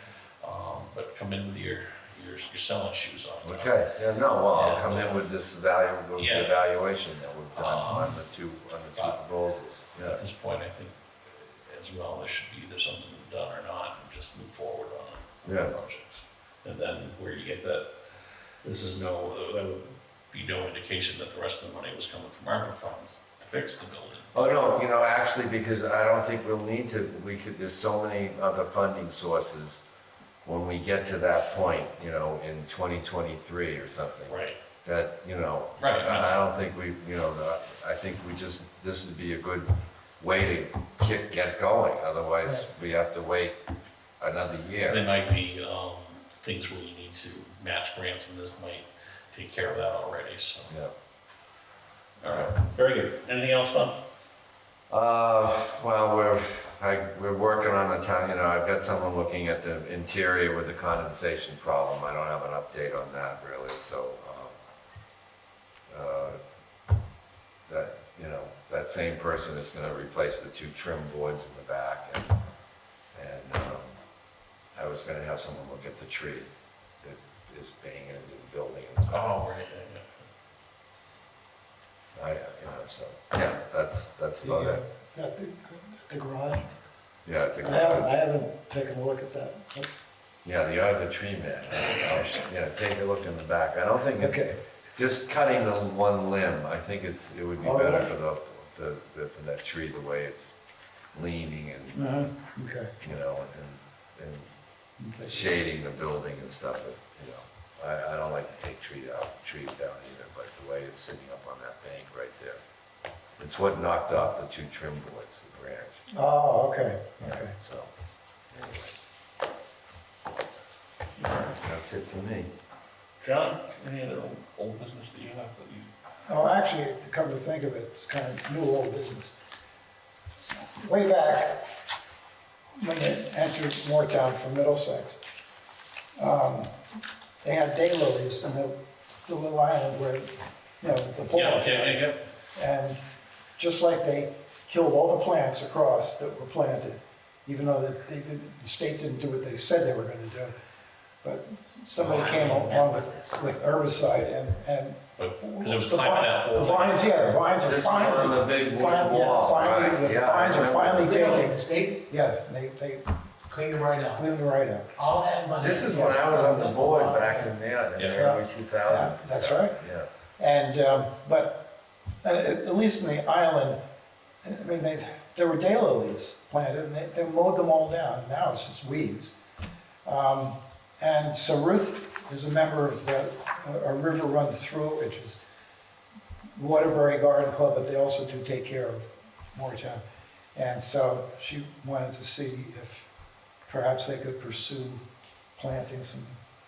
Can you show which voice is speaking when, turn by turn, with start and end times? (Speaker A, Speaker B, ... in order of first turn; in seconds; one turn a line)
Speaker A: 0.4-3.8
Speaker B: 3.4-10.2
Speaker A: 4.5-5.3
Speaker A: 6.2-6.6
Speaker A: 7.5-8.2
Speaker A: 8.9-9.2
Speaker A: 10.0-24.4
Speaker B: 15.4-15.7
Speaker B: 24.3-29.8
Speaker B: 30.4-43.6
Speaker A: 34.3-34.6
Speaker A: 35.8-36.4
Speaker B: 44.2-45.1
Speaker A: 44.9-50.8
Speaker A: 52.2-54.0
Speaker B: 52.3-52.5
Speaker B: 54.9-64.5
Speaker B: 65.9-66.4
Speaker B: 67.7-72.3
Speaker B: 73.1-73.9
Speaker B: 74.7-76.5
Speaker B: 77.0-79.4
Speaker A: 79.1-80.3
Speaker B: 82.2-84.8
Speaker C: 84.4-86.7
Speaker B: 87.2-88.1
Speaker C: 87.6-89.9
Speaker B: 90.4-100.6
Speaker C: 94.2-94.6
Speaker C: 97.6-98.1
Speaker B: 101.1-102.0
Speaker C: 101.9-103.0
Speaker B: 103.0-104.5
Speaker C: 105.0-105.6
Speaker B: 105.2-112.6
Speaker B: 113.4-116.0
Speaker C: 116.1-117.5
Speaker B: 117.2-117.9
Speaker B: 118.5-119.0
Speaker A: 121.2-121.5
Speaker B: 121.5-122.5
Speaker A: 123.2-125.9
Speaker C: 126.2-129.4
Speaker C: 130.8-131.7
Speaker C: 132.8-135.2
Speaker C: 136.2-136.7
Speaker C: 137.4-140.3
Speaker C: 140.8-143.0
Speaker A: 141.3-142.2
Speaker C: 143.6-150.5
Speaker C: 151.2-163.1
Speaker D: 152.0-153.3
Speaker A: 155.2-157.4
Speaker B: 157.6-161.3
Speaker D: 161.0-162.0
Speaker D: 163.5-164.2
Speaker C: 164.1-164.9
Speaker D: 164.9-167.5
Speaker B: 165.6-170.1
Speaker C: 165.8-166.7
Speaker A: 167.9-168.3
Speaker C: 168.1-169.8
Speaker C: 170.4-171.7
Speaker C: 172.2-173.8
Speaker C: 174.4-179.3
Speaker C: 180.0-185.4
Speaker C: 186.6-190.0
Speaker C: 190.5-193.1
Speaker C: 193.7-195.0
Speaker C: 195.6-196.4